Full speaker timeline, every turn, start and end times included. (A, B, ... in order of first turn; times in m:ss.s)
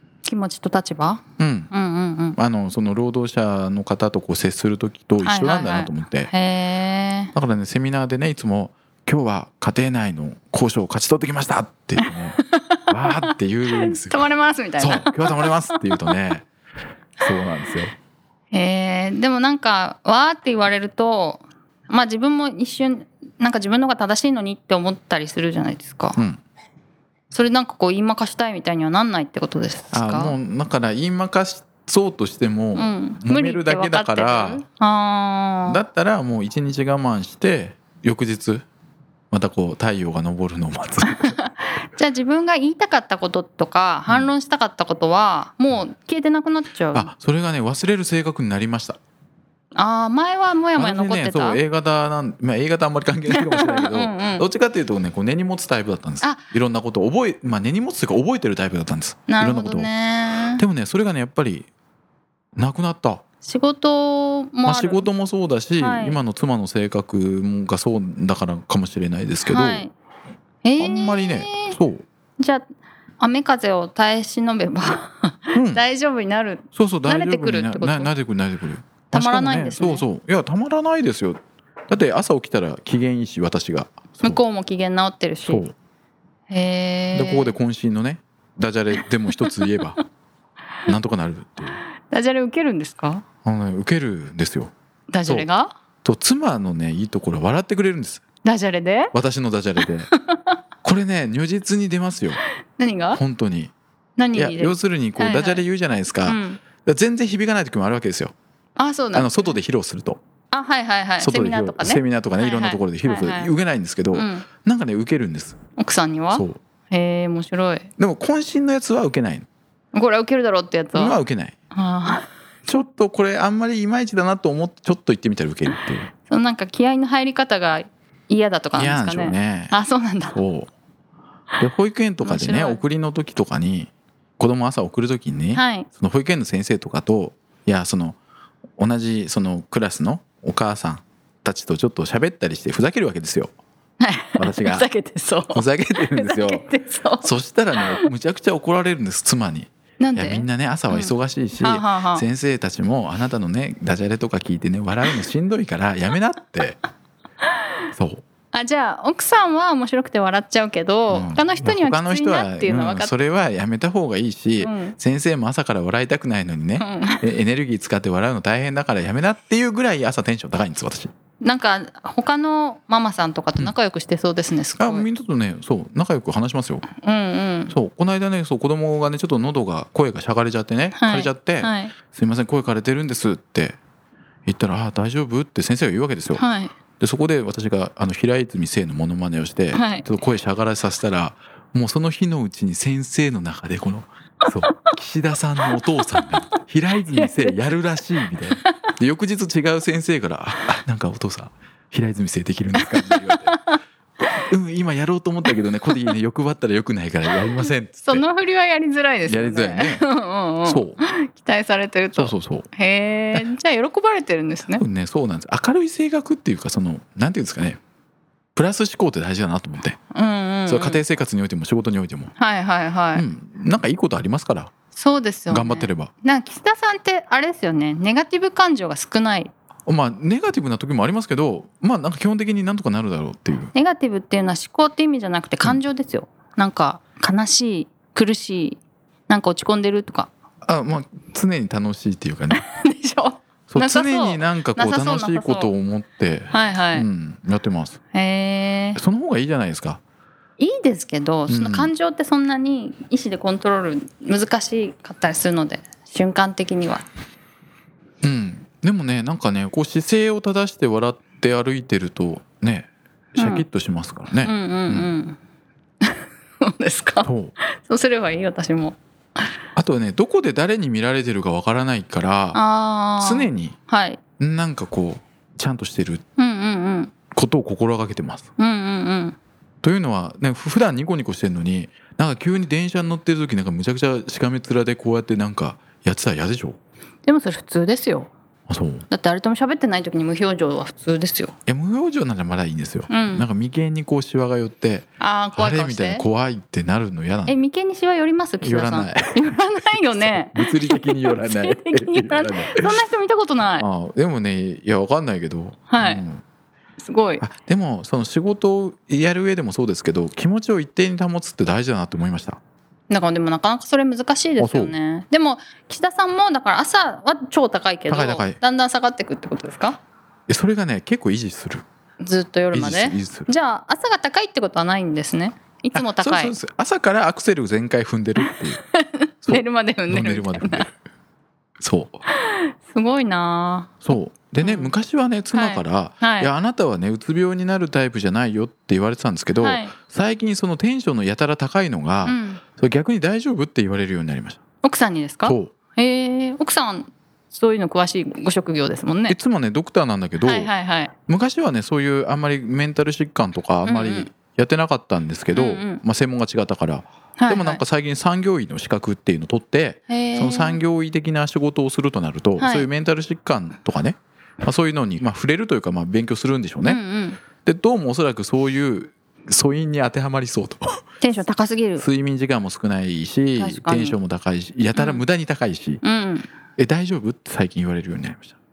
0:00.2-0:02.4 A
0:01.4-0:01.7 B
0:02.4-0:06.3 B
0:05.2-0:07.3 A
0:07.3-0:12.4 B
0:12.0-0:16.1 A
0:12.9-0:14.2 B
0:14.8-0:16.4 B
0:17.2-0:17.9 B
0:18.5-0:26.2 A
0:26.2-0:26.4 B
0:27.3-0:30.4 A
0:29.9-0:34.6 B
0:32.7-0:35.8 A
0:35.7-0:38.6 B
0:39.3-0:41.4 B
0:41.1-0:47.1 A
0:46.9-0:49.0 B
0:49.8-0:51.6 A
0:50.8-0:59.9 B
0:53.3-0:54.4 A
0:59.3-1:00.6 A
1:00.6-1:01.7 B
1:02.6-1:03.2 B
1:03.4-1:05.1 A
1:04.6-1:09.8 B
1:05.8-1:06.2 A
1:09.4-1:09.9 A
1:10.6-1:11.8 A
1:10.8-1:12.0 B
1:13.2-1:18.1 A
1:15.5-1:15.8 B
1:16.7-1:24.4 B
1:19.1-1:20.0 A
1:24.2-1:25.6 A
1:25.4-1:25.7 B
1:26.5-1:27.5 A
1:27.1-1:30.0 B
1:30.9-1:31.8 B
1:32.1-1:33.2 A
1:33.4-1:34.7 B
1:35.1-1:35.7 A
1:36.0-1:38.2 B
1:38.4-1:39.1 A
1:39.1-1:40.1 B
1:40.1-1:40.5 A
1:40.8-1:42.4 B
1:42.8-1:43.2 A
1:43.1-1:43.7 B
1:44.2-1:45.6 A
1:44.3-1:48.3 B
1:46.2-1:46.6 A
1:48.8-1:49.4 A
1:49.1-1:50.2 B
1:50.5-1:53.5 A
1:51.2-1:55.6 B
1:54.1-1:54.4 A
1:55.8-1:57.9 A
1:56.3-1:56.6 B
1:58.0-1:59.5 B
1:59.9-2:01.2 A
2:00.9-2:01.5 B
2:01.7-2:02.3 A
2:02.7-2:06.1 B
2:06.3-2:10.4 A
2:08.7-2:09.7 B
2:10.3-2:10.7 B
2:11.6-2:18.2 B
2:12.2-2:12.8 A
2:15.5-2:15.9 A
2:18.8-2:23.5 B
2:24.0-2:28.1 A
2:24.4-2:24.9 B
2:25.5-2:26.7 B
2:27.2-2:36.8 B
2:30.0-2:32.2 A
2:37.9-2:38.2 B
2:38.5-2:43.1 A
2:41.1-2:51.1 B
2:44.6-2:45.0 A
2:46.8-2:47.3 A
2:51.4-2:55.0 A
2:54.8-2:56.9 B
2:57.0-2:57.7 A
2:57.7-3:03.8 B
3:00.9-3:01.9 A
3:04.4-3:06.4 B
3:06.4-3:06.7 A
3:07.0-3:23.6 B
3:09.7-3:10.1 A
3:14.7-3:14.9 A
3:17.1-3:17.6 A
3:22.8-3:24.4 A
3:24.5-3:28.2 B
3:25.5-3:26.1 A
3:27.5-3:34.8 A
3:29.3-3:30.1 B
3:30.6-3:31.0 B
3:32.2-3:32.7 B
3:34.8-3:37.8 B
3:38.6-3:40.0 B
3:40.1-3:41.0 A
3:40.6-3:42.3 B
3:42.4-3:43.2 A
3:43.1-3:44.7 B
3:44.9-3:49.5 A
3:45.5-3:46.1 B
3:49.9-3:53.7 B
3:53.7-4:00.3 A
4:00.6-4:02.6 B
4:02.5-4:05.7 A
4:03.7-4:08.0 B
4:06.5-4:07.1 A
4:08.1-4:09.0 A
4:09.0-4:10.0 B
4:10.6-4:17.0 A
4:11.5-4:11.9 B
4:18.2-4:25.1 B
4:23.4-4:23.6 A
4:24.4-4:25.4 A
4:26.0-4:29.0 A
4:27.2-4:27.5 B
4:29.8-4:32.6 B
4:32.5-4:34.2 A
4:33.2-4:33.8 B
4:34.4-4:36.2 B
4:36.4-4:37.1 A
4:37.3-4:38.5 B
4:38.6-4:39.4 A
4:39.8-4:46.8 B
4:47.2-4:48.3 A
4:48.7-4:49.1 B
4:49.1-4:51.5 A
4:51.7-4:57.5 B
4:53.1-4:53.5 A
4:55.2-4:56.2 A
4:57.5-5:03.8 A
4:58.6-4:59.5 B
5:00.1-5:03.0 B
5:03.8-5:06.4 B
5:05.9-5:06.2 A
5:07.0-5:07.4 A
5:07.4-5:12.6 B
5:13.1-5:20.0 A
5:14.6-5:14.9 B
5:18.1-5:18.6 B
5:20.5-5:21.8 B
5:22.2-5:26.5 A
5:22.7-5:23.5 B
5:25.9-5:28.8 B
5:28.4-5:30.9 A
5:29.4-5:30.9 B
5:31.8-5:32.2 B
5:32.3-5:34.0 A
5:34.0-5:44.6 B
5:34.6-5:34.9 A
5:35.5-5:36.5 A
5:39.6-5:39.9 A
5:42.2-5:42.6 A
5:44.8-5:49.4 A
5:45.4-5:45.7 B
5:49.3-5:50.7 B
5:50.4-5:51.1 A
5:51.3-6:07.0 B
5:53.8-5:54.3 A
5:55.5-5:56.0 A
5:57.4-5:57.8 A
6:00.1-6:00.8 A
6:02.6-6:02.9 A
6:06.8-6:07.4 A
6:07.6-6:11.0 B
6:11.2-6:12.0 A
6:12.0-6:16.0 B
6:13.6-6:14.2 A
6:14.9-6:15.2 A
6:16.0-6:16.5 A
6:16.8-6:18.5 B